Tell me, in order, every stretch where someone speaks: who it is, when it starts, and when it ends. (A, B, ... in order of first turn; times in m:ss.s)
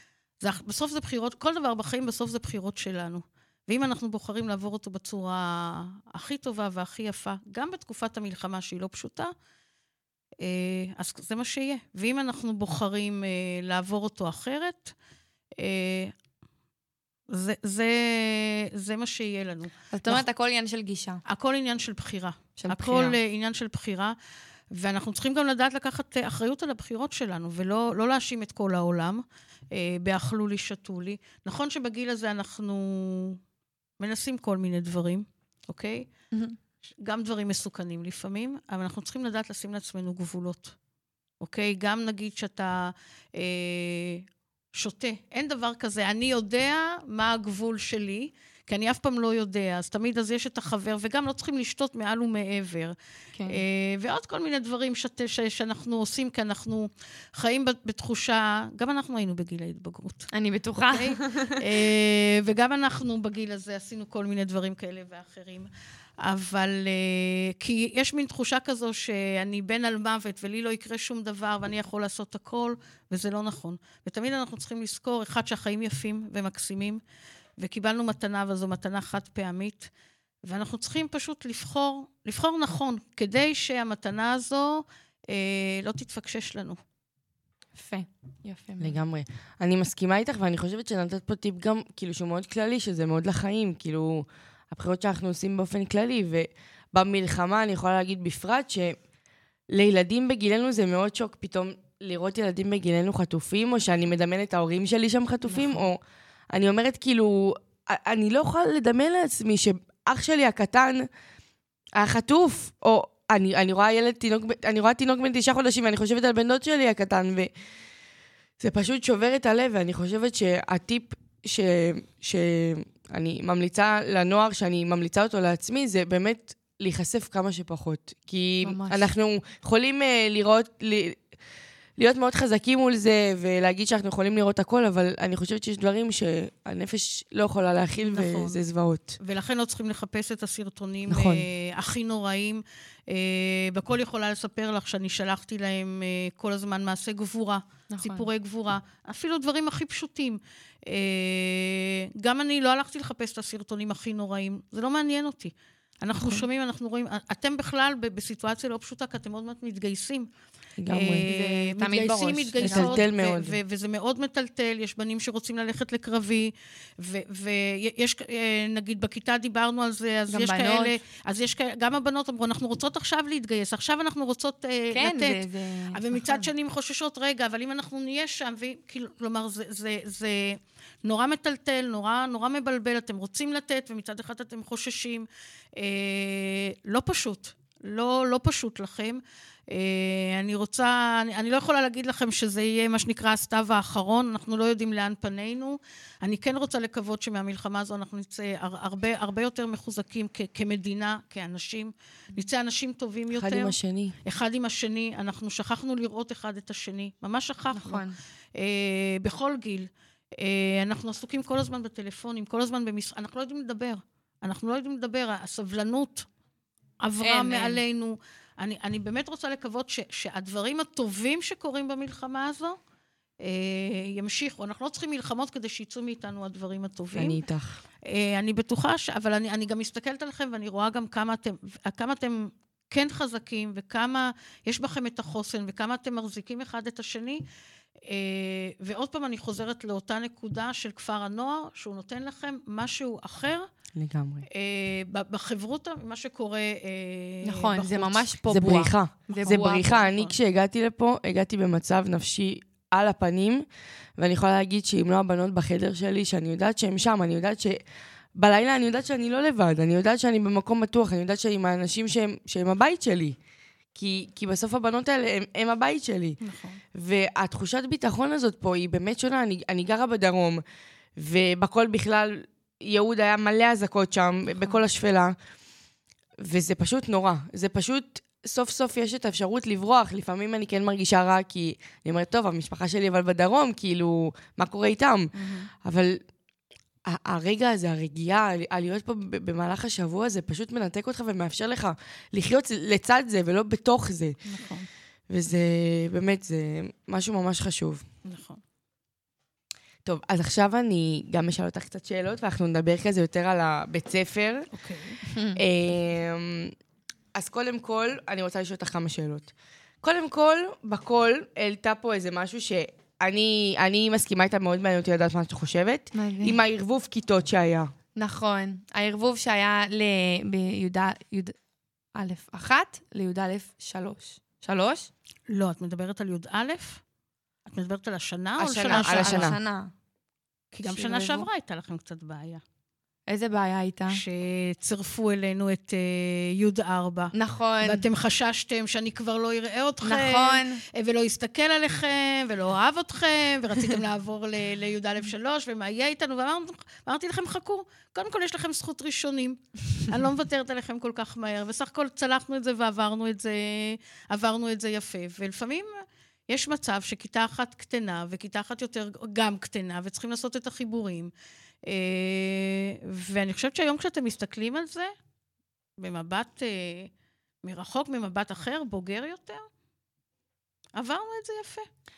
0:00.4-0:09.3 A
0:10.4-0:14.9 A
0:15.6-0:16.1 A
0:17.3-0:20.2 A
0:19.9-0:21.2 B
0:21.2-0:24.1 A
0:22.6-0:23.2 B
0:24.7-0:33.4 A
0:34.0-0:36.1 A
0:37.0-0:40.7 A
0:41.4-0:52.9 A
0:53.4-0:53.6 B
0:53.5-1:05.7 A
1:00.3-1:01.6 B
1:06.2-1:17.0 A
1:17.6-1:19.9 A
1:20.4-1:26.8 A
1:27.8-1:29.0 B
1:28.8-1:39.0 C
1:39.7-1:46.0 C
1:45.4-1:45.8 B
1:46.5-1:51.1 C
1:51.9-1:57.5 C
1:58.6-2:11.2 C
2:08.6-2:09.1 B
2:12.0-2:19.2 C
2:18.0-2:18.6 A
2:19.2-2:40.3 A
2:21.1-2:21.5 C
2:27.9-2:28.3 B
2:36.2-2:36.4 B
2:40.8-2:41.3 C
2:40.9-3:36.3 A
2:41.3-2:43.0 B
2:42.6-2:43.6 C
2:50.3-2:51.0 B
2:54.9-2:56.5 B
3:23.3-3:24.2 C
3:27.7-3:28.2 B
3:37.0-3:42.8 A
3:37.2-3:37.8 B
3:43.4-3:47.4 A
3:47.1-3:47.8 C
3:48.0-3:57.4 A
3:58.1-4:03.7 A
4:03.9-4:04.4 C
4:04.5-4:08.4 A
4:07.4-4:09.8 B
4:08.5-4:13.6 C
4:09.3-4:10.3 A
4:14.2-4:17.8 C
4:18.3-4:23.4 C
4:23.9-4:26.4 C
4:26.4-4:26.8 A
4:26.9-4:30.6 C
4:31.2-4:35.3 C
4:34.5-4:34.8 B
4:36.4-4:45.3 C
4:45.3-4:45.7 A
4:45.8-4:46.2 C
4:47.1-4:54.4 C
4:54.4-4:54.9 A
4:55.3-4:58.0 C
4:58.2-4:58.6 A
5:00.0-5:04.7 C
5:04.7-5:05.2 A
5:05.3-5:05.6 B
5:05.6-5:06.7 C
5:07.3-5:17.9 C
5:16.1-5:16.6 B
5:18.2-5:21.5 B
5:22.1-5:25.1 B
5:25.5-5:27.0 A
5:27.7-5:29.5 A
5:28.6-5:29.6 C
5:28.9-5:29.9 B
5:30.7-5:32.6 A
5:30.8-5:31.5 B
5:33.3-5:34.2 B
5:34.1-6:01.3 A
5:37.3-5:38.0 B
5:40.0-5:40.8 B
6:01.8-6:05.1 A
6:06.0-6:07.1 A
6:07.6-6:09.6 A
6:10.9-6:11.9 A